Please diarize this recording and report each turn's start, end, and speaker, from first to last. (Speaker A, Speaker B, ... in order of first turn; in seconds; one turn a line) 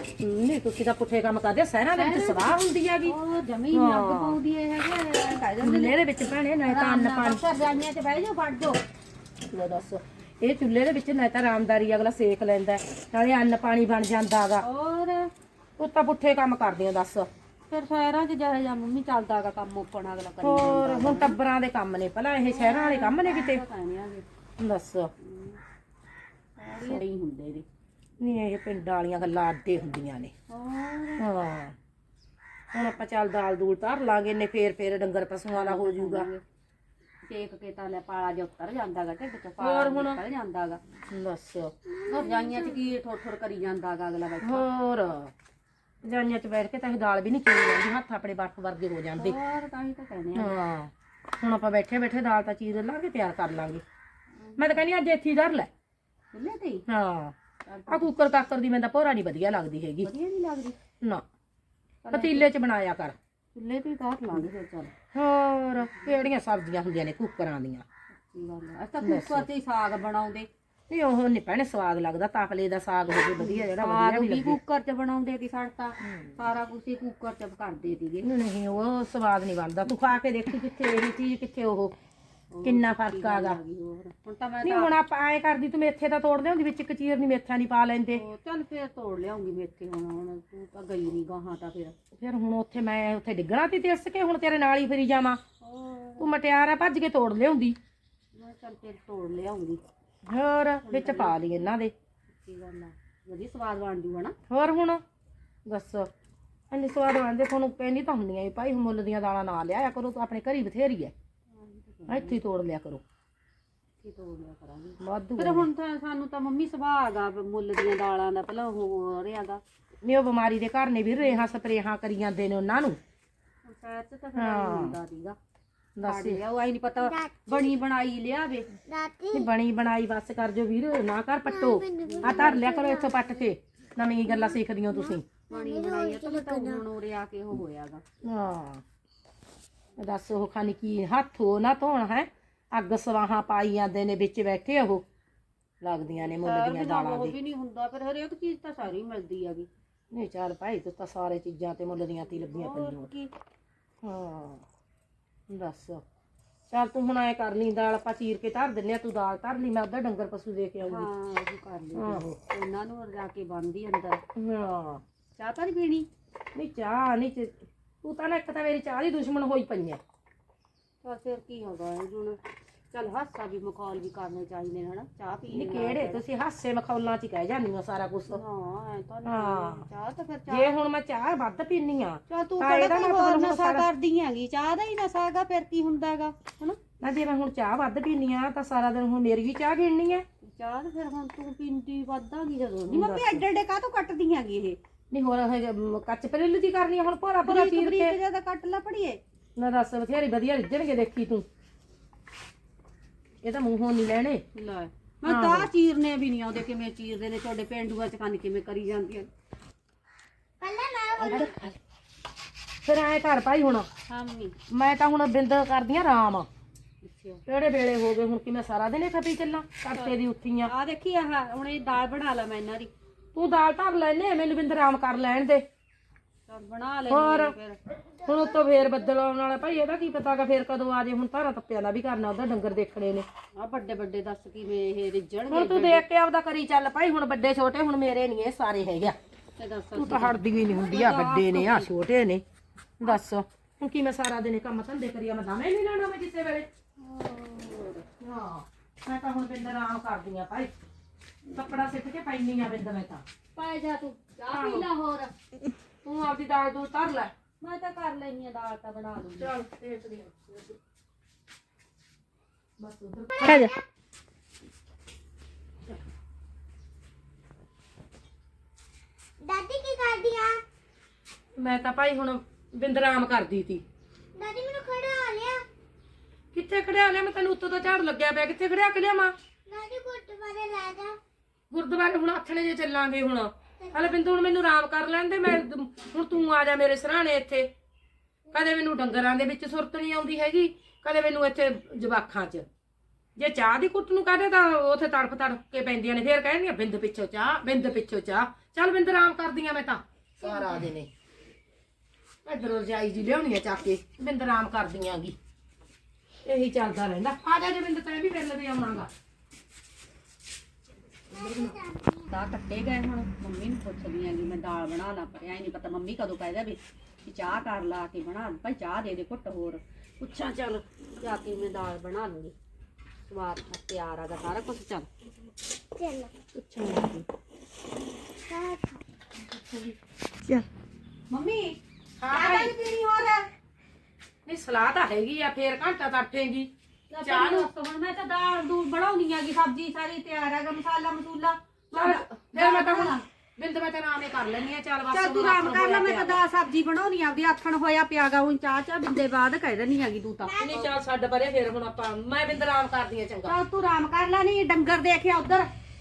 Speaker A: 0.2-3.1
Speaker B: 1.9-5.9
Speaker A: 3.7-4.4
Speaker A: 5.6-7.4
Speaker B: 6.7-8.8
Speaker A: 9.5-14.6
Speaker B: 14.6-15.3
Speaker A: 15.8-17.3
Speaker B: 17.7-21.4
Speaker A: 20.4-23.6
Speaker B: 22.4-24.3
Speaker A: 24.6-25.1
Speaker B: 25.2-25.6
Speaker B: 26.6-27.6
Speaker A: 28.2-30.3
Speaker B: 30.5-31.3
Speaker A: 31.2-31.7
Speaker A: 32.7-36.3
Speaker B: 35.5-36.4
Speaker B: 37.3-40.8
Speaker A: 39.6-40.2
Speaker A: 41.1-41.7
Speaker C: 41.9-42.8
Speaker B: 42.0-44.7
Speaker A: 44.4-45.3
Speaker A: 46.0-49.4
Speaker B: 49.2-50.6
Speaker A: 50.3-53.8
Speaker B: 54.4-54.8
Speaker A: 54.6-55.7
Speaker B: 56.3-56.8
Speaker A: 56.9-57.3
Speaker B: 57.6-58.1
Speaker A: 57.9-60.1
Speaker B: 60.0-60.8
Speaker B: 62.0-62.4
Speaker A: 62.1-63.2
Speaker B: 63.5-64.9
Speaker A: 65.1-67.8
Speaker B: 68.3-70.5
Speaker A: 69.0-69.5
Speaker A: 70.9-74.6
Speaker B: 73.4-78.3
Speaker A: 76.0-76.3
Speaker A: 78.2-81.9
Speaker B: 82.5-85.0
Speaker A: 82.6-83.6
Speaker A: 84.6-88.2
Speaker B: 88.1-92.0
Speaker A: 92.2-95.4
Speaker B: 95.6-96.3
Speaker A: 96.2-97.8
Speaker B: 98.3-99.8
Speaker A: 100.2-101.9
Speaker B: 100.8-101.4
Speaker B: 102.3-104.3
Speaker A: 104.5-105.0
Speaker A: 105.7-106.1
Speaker A: 106.7-111.1
Speaker B: 111.5-112.4
Speaker A: 112.1-113.0
Speaker B: 114.0-119.6
Speaker A: 115.0-115.7
Speaker A: 120.0-123.0
Speaker B: 123.6-125.4
Speaker A: 124.3-125.0
Speaker A: 126.0-126.4
Speaker B: 126.0-128.7
Speaker C: 127.0-127.8
Speaker C: 128.9-129.5
Speaker A: 129.3-135.2
Speaker C: 131.4-133.4
Speaker B: 132.0-132.6
Speaker C: 134.0-136.8
Speaker B: 135.5-138.0
Speaker A: 138.2-138.8
Speaker A: 140.0-145.0
Speaker A: 145.8-147.3
Speaker B: 146.2-149.7
Speaker A: 150.1-153.1
Speaker B: 152.3-153.3
Speaker A: 154.0-154.6
Speaker A: 155.5-156.0
Speaker A: 156.7-161.1
Speaker B: 160.8-164.2
Speaker A: 161.9-162.4
Speaker A: 164.3-165.0
Speaker B: 165.4-166.1
Speaker A: 166.5-170.0
Speaker B: 171.0-172.4
Speaker B: 172.9-176.2
Speaker A: 175.5-178.4
Speaker B: 178.3-180.7
Speaker A: 179.2-179.8
Speaker A: 180.5-183.9
Speaker B: 182.3-186.8
Speaker A: 187.0-190.2
Speaker B: 190.4-194.8
Speaker A: 192.9-193.4
Speaker A: 195.1-198.2
Speaker B: 197.4-199.2
Speaker A: 199.6-201.4
Speaker A: 203.4-204.4
Speaker B: 204.5-209.3
Speaker A: 205.2-205.7
Speaker C: 210.6-211.6
Speaker A: 211.2-211.8
Speaker A: 212.8-213.9
Speaker B: 214.1-214.6
Speaker A: 214.7-216.5
Speaker B: 217.0-217.4
Speaker A: 217.5-220.7
Speaker B: 219.9-222.9
Speaker A: 223.3-225.7
Speaker B: 226.5-227.8
Speaker A: 227.1-227.5
Speaker C: 228.2-228.9
Speaker A: 228.2-233.2
Speaker B: 233.6-236.0
Speaker A: 235.5-239.2
Speaker B: 239.6-241.9
Speaker A: 239.9-242.4
Speaker A: 243.0-246.7
Speaker B: 247.0-248.0
Speaker A: 248.2-250.7
Speaker A: 251.5-253.2
Speaker B: 253.6-255.3
Speaker A: 254.5-254.9
Speaker A: 256.0-257.3
Speaker B: 257.6-259.5
Speaker A: 259.4-260.8
Speaker A: 262.8-263.7
Speaker C: 263.3-263.8
Speaker C: 269.4-270.6
Speaker A: 271.6-273.8
Speaker C: 274.4-275.6
Speaker A: 276.5-279.3
Speaker C: 279.7-281.2
Speaker A: 281.7-287.7
Speaker C: 283.8-284.2
Speaker A: 288.5-292.7
Speaker A: 293.4-301.1
Speaker A: 302.4-305.4
Speaker A: 306.4-309.1
Speaker C: 311.3-312.3
Speaker A: 311.3-311.7
Speaker B: 312.3-319.8
Speaker A: 320.2-320.8
Speaker B: 321.2-322.5
Speaker B: 323.3-325.1
Speaker C: 325.9-326.3
Speaker A: 326.5-327.2
Speaker C: 328.5-329.0
Speaker A: 329.5-329.9
Speaker B: 331.3-331.8
Speaker A: 332.2-332.7
Speaker B: 332.3-333.4
Speaker A: 334.4-336.7
Speaker B: 337.1-343.2
Speaker A: 337.2-337.7
Speaker A: 341.9-346.4
Speaker B: 345.1-350.9
Speaker C: 350.4-350.9
Speaker A: 350.6-353.6
Speaker B: 353.4-355.7